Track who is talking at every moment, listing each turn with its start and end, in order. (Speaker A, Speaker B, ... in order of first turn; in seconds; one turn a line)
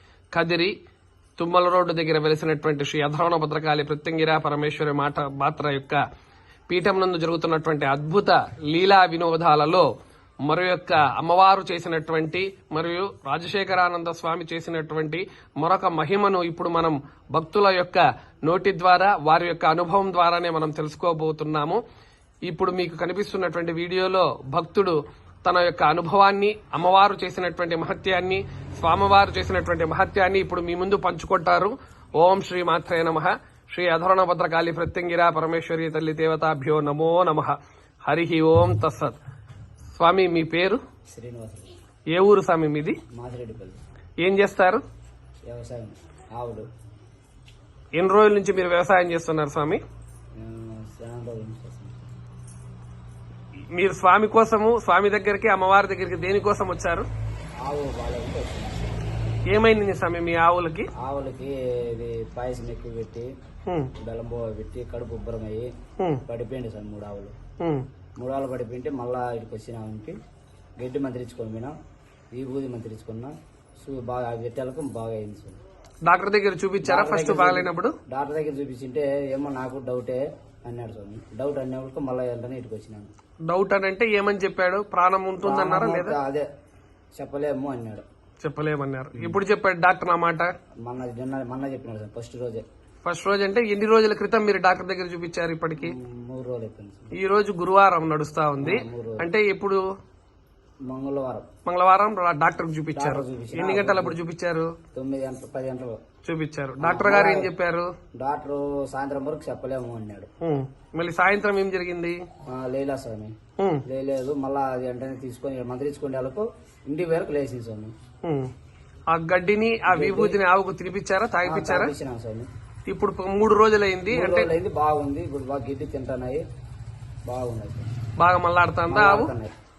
Speaker A: 0.3-0.7
Speaker A: 1.4-6.0
Speaker A: 6.7-9.9
Speaker A: 10.5-21.8
Speaker A: 22.5-39.2
Speaker A: 40.0-40.8
Speaker B: 41.1-41.7
Speaker A: 42.1-43.0
Speaker B: 43.1-43.8
Speaker A: 44.2-44.8
Speaker B: 45.5-46.6
Speaker A: 48.0-49.8
Speaker B: 50.4-52.1
Speaker A: 53.8-57.1
Speaker B: 57.6-59.0
Speaker A: 59.5-60.9
Speaker B: 61.0-63.3
Speaker B: 64.0-65.7
Speaker B: 66.3-67.3
Speaker A: 67.6-67.9
Speaker B: 68.2-70.2
Speaker B: 70.8-71.7
Speaker B: 72.3-75.6
Speaker A: 76.0-77.9
Speaker B: 76.8-83.1
Speaker A: 83.5-86.2
Speaker B: 85.4-86.5
Speaker B: 87.2-88.0
Speaker A: 88.4-90.5
Speaker B: 89.1-89.4
Speaker B: 90.8-92.6
Speaker A: 93.0-96.0
Speaker B: 95.8-97.1
Speaker A: 97.1-99.8
Speaker B: 98.6-99.3
Speaker B: 100.9-101.5
Speaker A: 101.7-104.7
Speaker B: 103.0-104.2
Speaker B: 104.9-106.0
Speaker A: 106.2-107.9
Speaker B: 106.8-107.5
Speaker B: 108.2-110.3
Speaker A: 110.4-112.2
Speaker B: 112.5-113.3
Speaker A: 113.6-113.8
Speaker B: 113.9-117.9
Speaker A: 118.2-118.5
Speaker A: 119.1-121.9
Speaker B: 119.9-120.4
Speaker B: 121.5-122.5
Speaker A: 122.9-124.5
Speaker B: 124.1-126.4
Speaker B: 127.3-127.9
Speaker A: 128.2-129.3
Speaker B: 128.9-129.5